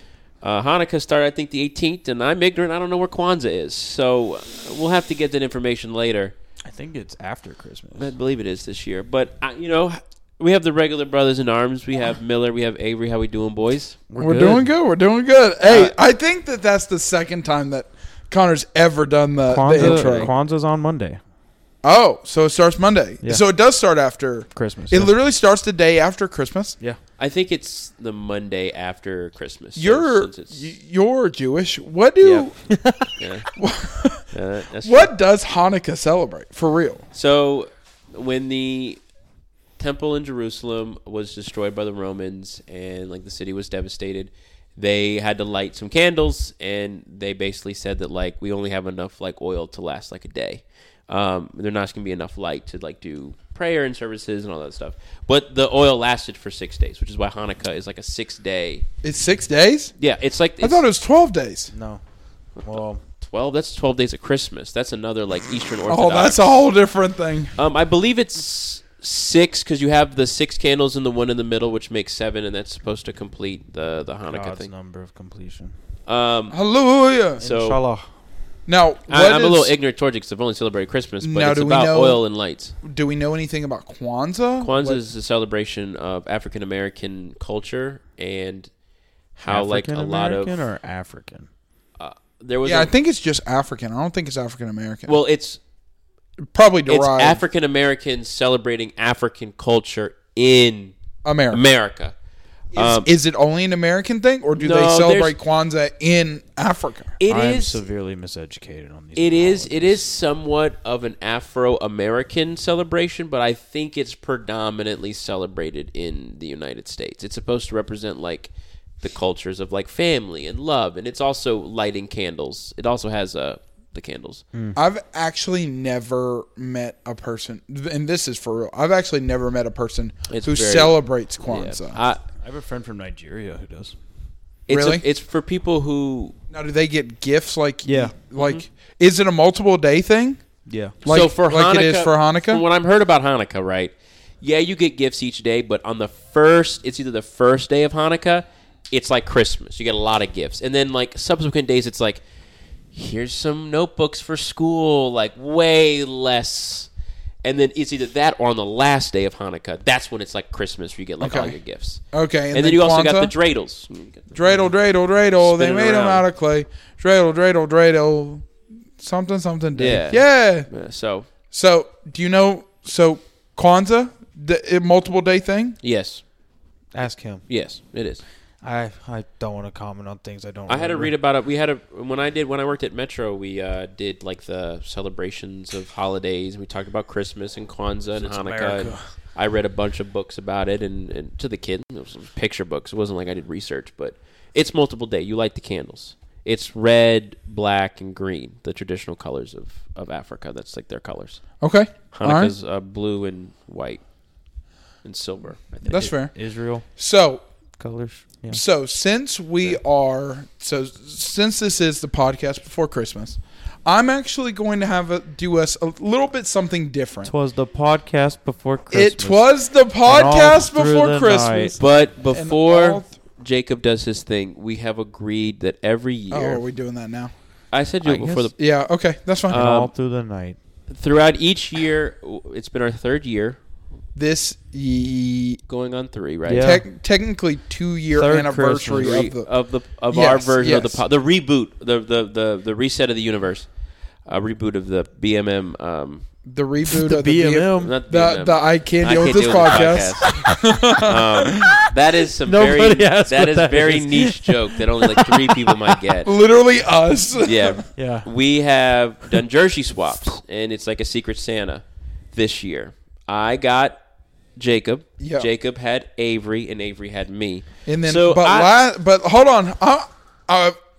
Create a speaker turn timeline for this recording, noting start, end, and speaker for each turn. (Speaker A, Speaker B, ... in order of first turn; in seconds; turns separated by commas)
Speaker A: 0.4-6.3, Speaker B: 6.6-8.1, Speaker A: 8.0-14.0, Speaker B: 14.1-14.7, Speaker C: 14.2-20.3, Speaker A: 15.6-15.9, Speaker B: 19.5-21.2, Speaker A: 19.7-20.3, Speaker C: 21.8-26.8, Speaker B: 24.5-25.1, Speaker A: 27.2-30.6, Speaker C: 29.8-32.7, Speaker B: 32.2-33.1, Speaker A: 33.2-33.5, Speaker C: 33.5-34.2, Speaker A: 34.3-35.1, Speaker C: 34.8-37.0, Speaker A: 37.1-39.0, Speaker A: 39.8-58.8, Speaker C: 59.0-59.9, Speaker A: 60.0-60.8, Speaker C: 60.6-61.7, Speaker B: 61.7-62.0, Speaker B: 62.6-63.0, Speaker A: 63.2-66.6, Speaker C: 65.9-67.5, Speaker A: 67.5-74.7, Speaker B: 74.3-75.7, Speaker A: 76.1-76.5, Speaker C: 76.5-77.4, Speaker B: 77.4-78.1, Speaker A: 77.4-77.8, Speaker C: 78.7-79.7, Speaker A: 79.1-82.7, Speaker C: 81.2-82.2, Speaker C: 82.8-85.0, Speaker A: 84.6-88.7, Speaker A: 89.3-90.6, Speaker B: 89.5-91.5, Speaker A: 92.0-92.9, Speaker C: 92.6-95.2, Speaker A: 95.1-95.6, Speaker C: 96.5-97.4, Speaker A: 96.9-100.9, Speaker C: 101.2-101.6, Speaker A: 101.5-102.1, Speaker C: 102.7-107.2, Speaker A: 102.7-103.1, Speaker A: 104.6-105.3, Speaker A: 107.2-107.8, Speaker B: 107.3-110.1, Speaker A: 109.2-124.4, Speaker C: 124.8-132.0, Speaker A: 130.3-132.2, Speaker B: 132.4-133.9, Speaker A: 134.7-136.3, Speaker C: 134.7-135.0, Speaker C: 136.5-140.4, Speaker B: 137.8-138.1, Speaker A: 138.3-138.6, Speaker B: 140.7-140.9, Speaker C: 141.0-142.6, Speaker A: 141.0-152.2, Speaker A: 152.9-156.9, Speaker A: 157.4-162.0, Speaker C: 161.2-163.3, Speaker A: 162.5-164.3, Speaker C: 164.3-168.4, Speaker A: 165.4-166.2, Speaker C: 169.0-170.7, Speaker A: 169.7-171.3, Speaker C: 171.5-175.8, Speaker A: 175.8-176.2, Speaker B: 176.9-177.4, Speaker A: 177.5-178.2, Speaker B: 178.6-181.1, Speaker A: 180.7-201.4, Speaker B: 188.2-189.1, Speaker C: 201.6-202.5, Speaker A: 202.1-204.0, Speaker A: 205.0-206.0, Speaker B: 205.8-206.8, Speaker C: 205.9-206.3, Speaker C: 206.9-207.4, Speaker B: 207.8-208.6, Speaker C: 208.5-217.3, Speaker B: 217.2-219.5, Speaker C: 218.9-223.1, Speaker B: 220.0-221.8, Speaker A: 221.8-226.6, Speaker C: 226.3-227.3, Speaker A: 227.7-228.6, Speaker B: 228.0-228.5, Speaker C: 228.6-229.6, Speaker A: 229.5-229.9, Speaker B: 229.5-230.6, Speaker A: 230.9-233.6, Speaker C: 234.1-235.6, Speaker A: 235.7-236.7, Speaker B: 236.5-236.8, Speaker C: 236.6-239.5, Speaker B: 238.2-239.3, Speaker A: 238.9-243.7, Speaker C: 240.1-241.0, Speaker A: 244.2-246.2, Speaker C: 246.4-251.7, Speaker B: 246.8-248.0, Speaker A: 247.8-250.5, Speaker B: 250.2-250.5, Speaker A: 251.0-256.3, Speaker B: 251.5-251.9, Speaker B: 252.4-256.0, Speaker C: 256.2-257.8, Speaker A: 257.4-264.0, Speaker B: 257.9-258.3, Speaker A: 264.6-268.7, Speaker C: 265.2-265.5, Speaker C: 267.9-270.8